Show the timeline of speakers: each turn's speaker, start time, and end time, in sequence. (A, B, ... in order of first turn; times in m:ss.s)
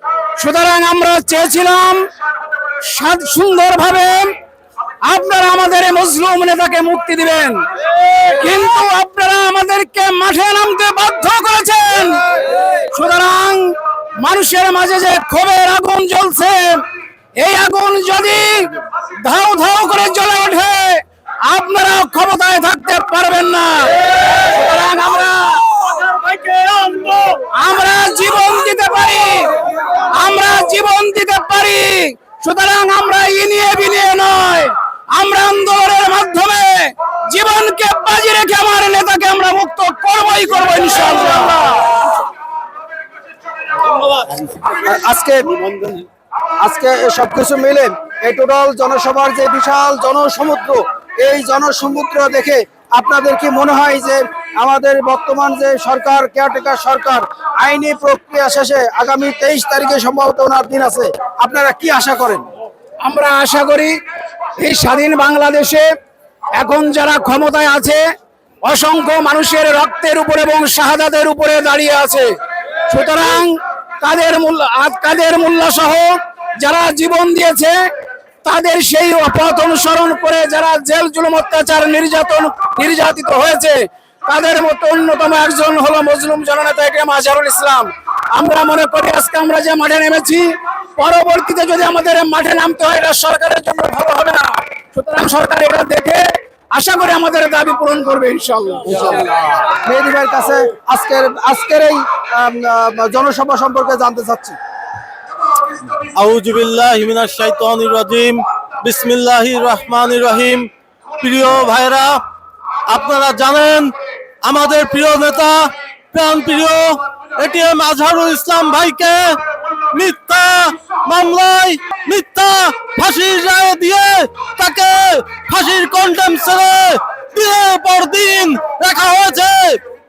0:00.4-0:02.0 A
0:02.8-0:04.3 A
0:05.0-0:16.8 A
0:17.4-0:25.6 A
0:26.0-0:27.4 B
0:27.5-0:41.7 A
0:44.8-0:46.0 C
0:46.6-1:02.4 C
1:03.0-1:04.0 A
1:04.6-1:05.9 A
1:06.6-1:08.0 A
1:08.6-1:12.3 A
1:12.9-1:13.5 A
1:14.0-1:17.7 A
1:18.4-1:30.4 A
1:31.0-1:36.2 A
1:36.7-1:39.2 A
1:38.8-1:44.6 C
1:46.1-1:52.2 B
1:52.9-1:53.9 B
1:54.4-1:59.4 B
1:59.9-2:09.8 B